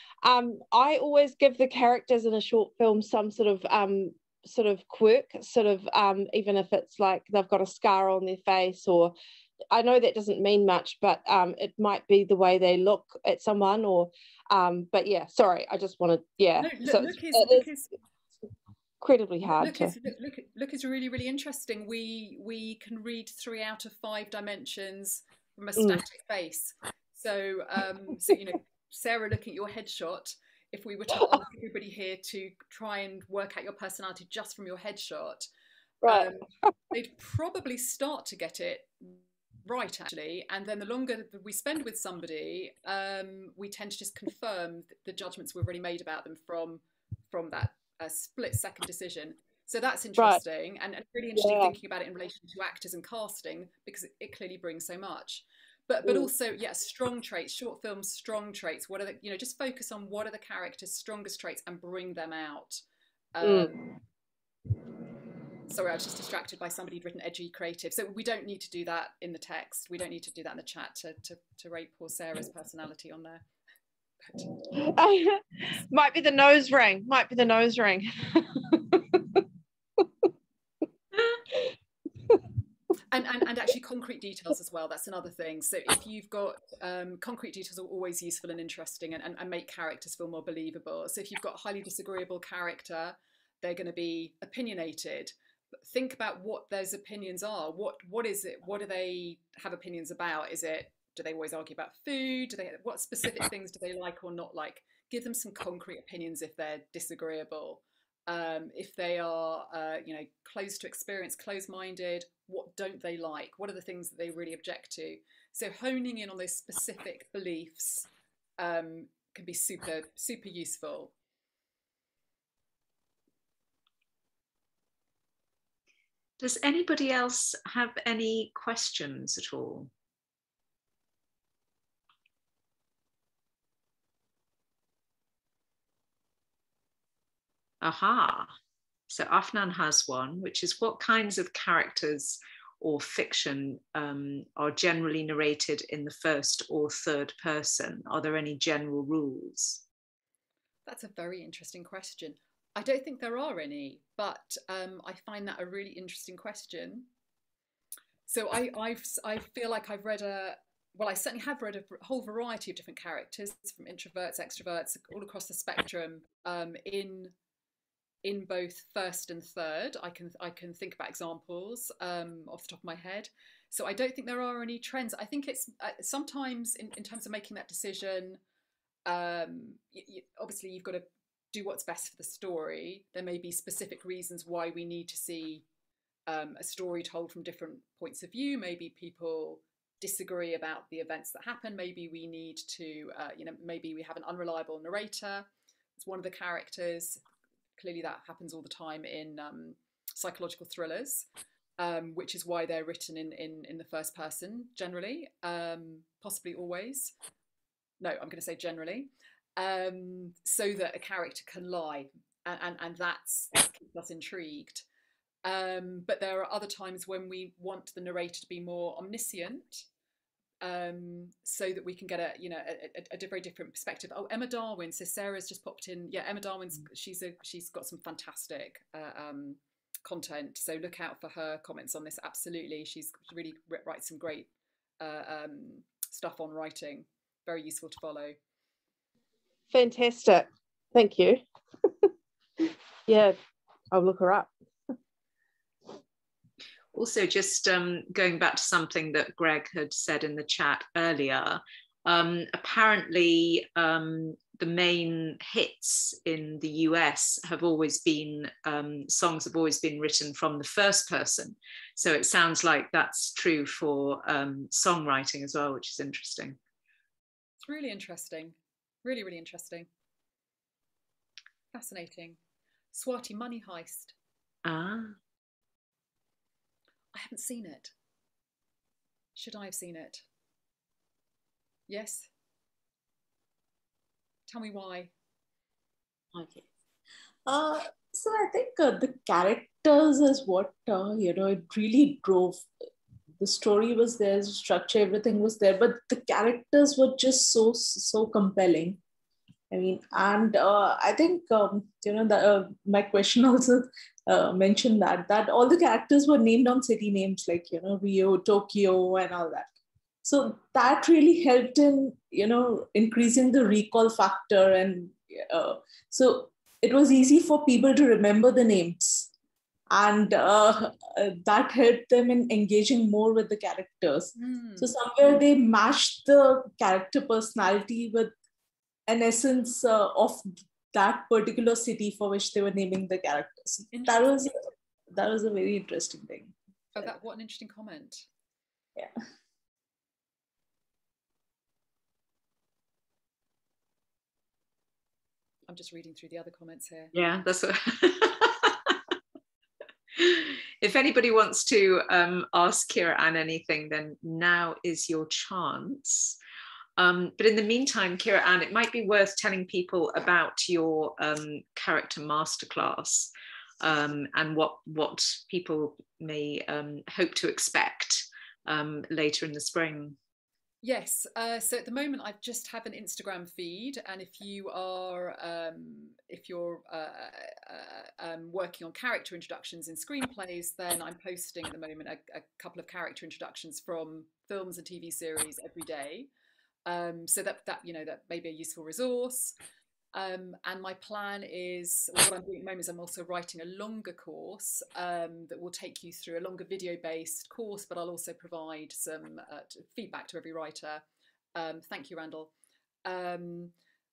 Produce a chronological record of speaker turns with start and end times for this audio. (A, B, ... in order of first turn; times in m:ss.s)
0:00.2-0:09.2 A
0:09.7-0:17.7 A
0:16.6-0:17.9 B
0:19.0-0:20.0 A
0:19.4-0:35.5 B
0:25.8-0:26.0 A
0:31.2-0:31.4 A
0:36.0-0:36.3 A
0:36.0-0:36.4 B
0:36.9-1:02.8 B
0:51.3-0:51.8 A
0:56.0-0:56.3 A
1:03.3-1:03.9 B
1:03.4-1:03.9 A
1:05.7-1:13.4 B
1:14.2-1:14.5 B
1:14.7-1:15.4 A
1:15.9-1:19.4 A
1:23.1-1:58.0 B
1:58.6-2:01.1 B
2:06.4-2:09.9 C
2:17.8-2:18.5 C
2:19.1-2:29.8 C
2:30.9-2:37.1 B
2:38.3-2:47.3 B
2:48.2-2:58.4 B
2:59.0-3:05.6 B
3:06.3-3:17.2 B
3:17.8-3:21.2 B
3:21.8-3:27.1 B
3:28.0-3:34.8 B
3:35.4-3:39.9 B
3:40.6-3:58.4 B
3:59.7-4:01.4 A
4:02.0-4:03.4 A
4:03.9-4:04.5 A
4:06.9-4:26.6 C
4:27.6-4:29.9 B
4:31.7-4:32.4 B
4:32.9-4:34.1 B
4:34.6-4:35.2 C
4:37.1-4:37.9 B
4:39.3-4:40.2 B
4:41.9-4:42.3 B
4:44.5-4:45.1 B
4:46.3-4:46.6 D
4:47.4-4:52.7 D
4:53.4-4:59.0 D
4:59.7-5:09.7 D
5:10.2-5:19.3 D
5:19.9-5:28.3 D
5:24.4-5:24.9 B
5:29.1-5:34.6 D
5:33.9-5:34.3 B
5:35.2-5:37.1 D
5:36.9-5:38.2 B
5:45.7-5:47.1 B
5:47.1-5:49.0 C
5:50.1-5:56.4 C
5:57.0-6:10.2 C
6:10.8-6:26.3 B
6:26.9-6:29.6 B
6:30.1-6:41.0 B
6:41.6-6:42.5 B
6:43.0-6:43.7 B